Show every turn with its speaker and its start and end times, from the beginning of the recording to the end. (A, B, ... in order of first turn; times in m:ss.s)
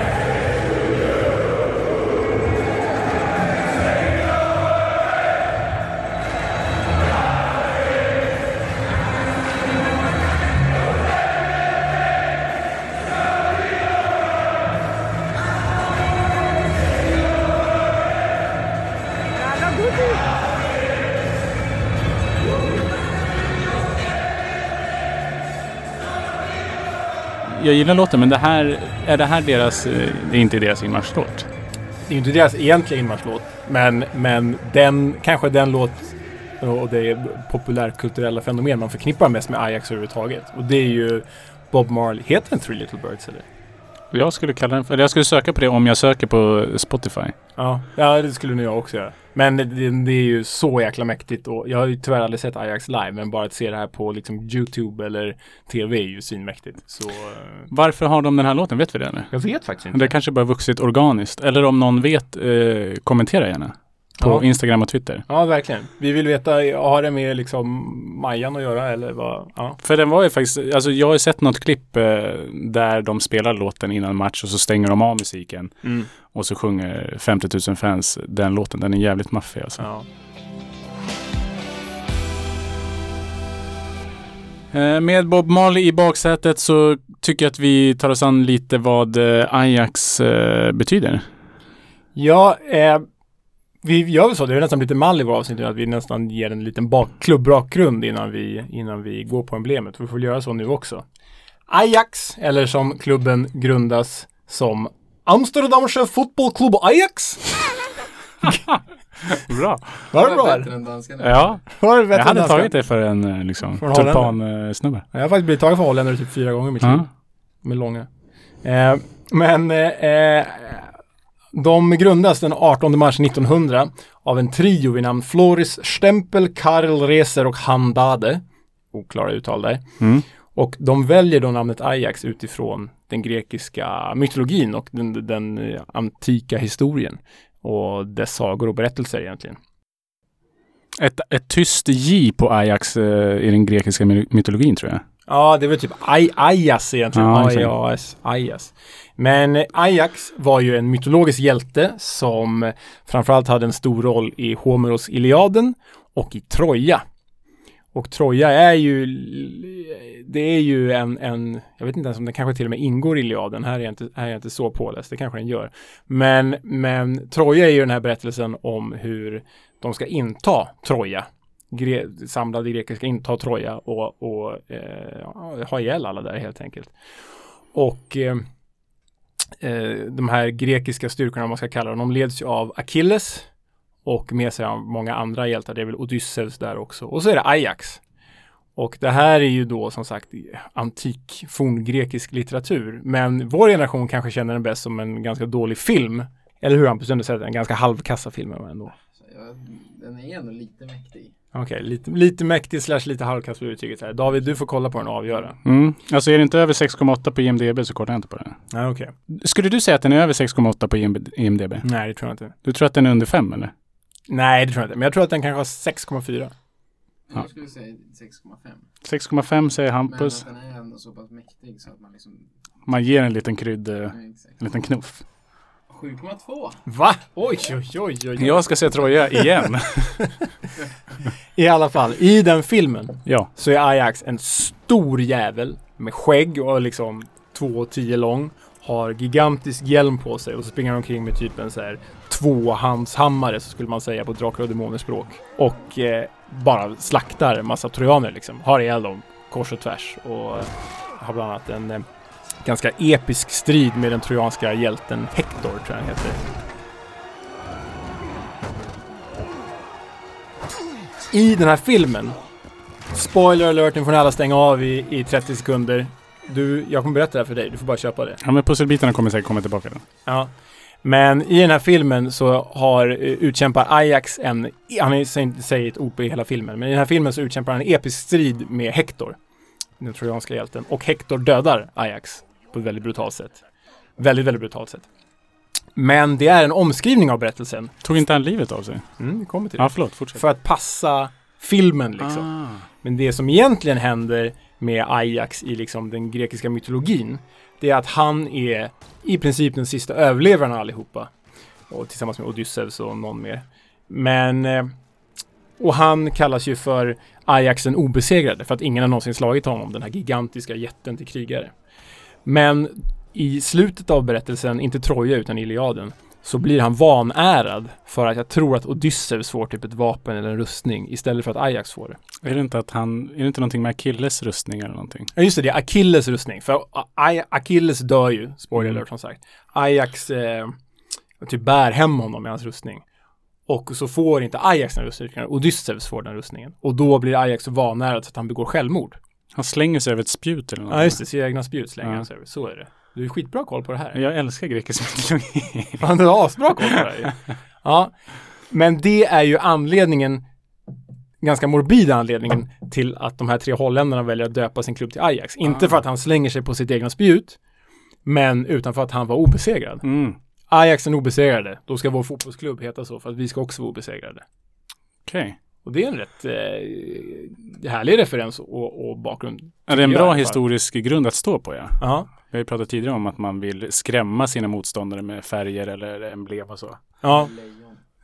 0:27.4-0:31.5 A
0:32.1-0:43.5 B
0:44.1-0:47.4 A
0:47.6-0:57.7 B
0:57.7-0:59.3 A
0:59.3-1:00.1 B
0:59.9-1:05.2 A
1:04.2-1:04.4 B
1:05.3-1:09.8 B
1:09.8-1:19.8 A
1:15.8-1:16.1 B
1:19.8-1:20.1 B
1:24.7-1:31.3 A
1:32.2-1:33.0 B
1:33.8-1:41.0 B
1:41.7-1:47.9 B
1:48.4-1:50.1 A
1:50.1-1:50.7 B
1:50.1-1:51.6 C
1:51.2-1:55.0 A
1:51.7-1:52.7 B
1:53.8-1:54.4 B
1:55.1-1:57.1 B
1:57.6-1:58.1 B
1:58.6-2:00.9 B
2:01.5-2:09.9 B
2:10.0-2:10.2 A
2:10.5-2:19.6 B
2:21.0-2:25.0 A
2:25.3-2:37.0 B
2:27.2-2:27.7 A
2:37.9-2:57.0 B
2:57.7-2:58.5 B
2:59.6-3:03.5 B
3:04.0-3:08.0 B
3:08.8-3:18.9 B
3:19.1-3:21.3 C
3:21.5-3:25.6 B
3:25.6-3:28.6 A
3:28.7-3:29.1 B
3:29.3-3:31.9 A
3:31.8-3:32.5 B
3:32.6-3:33.7 A
3:34.3-3:36.5 B
3:37.3-3:38.9 C
3:39.0-3:40.4 A
3:40.1-3:42.5 C
3:42.9-3:45.2 A
3:44.1-3:44.6 C
3:45.9-3:46.9 C
3:46.9-3:48.7 B
3:48.4-3:50.2 A
3:49.4-3:49.6 B
3:50.2-3:50.5 B
3:51.6-4:12.1 B
4:12.6-4:16.4 B
4:21.3-4:22.4 B
4:23.1-4:28.4 B
4:28.4-4:30.0 A
4:30.3-4:30.5 B
4:31.0-4:39.4 B
4:40.0-4:43.6 B
4:44.2-4:45.1 B
4:46.0-4:47.9 B
4:48.0-4:49.0 A
4:49.2-4:52.5 B
4:49.8-4:50.4 A
4:52.2-4:52.9 A
4:53.0-5:01.3 B
5:01.9-5:04.9 B
5:05.8-5:11.7 B
5:12.4-5:22.2 B
5:22.4-5:25.3 A
5:25.4-5:30.8 B
5:31.4-5:33.0 B
5:33.7-5:39.2 B
5:39.6-5:41.2 A
5:40.9-5:44.2 B
5:44.2-5:46.0 A
5:46.0-5:50.4 B
5:51.4-5:57.6 B
5:58.2-6:00.0 B
6:00.0-6:00.4 A
6:00.7-6:04.4 B
6:05.2-6:05.6 A
6:05.8-6:10.6 B
6:09.9-6:17.0 A
6:12.0-6:12.3 B
6:17.2-6:17.5 B
6:17.3-6:18.0 C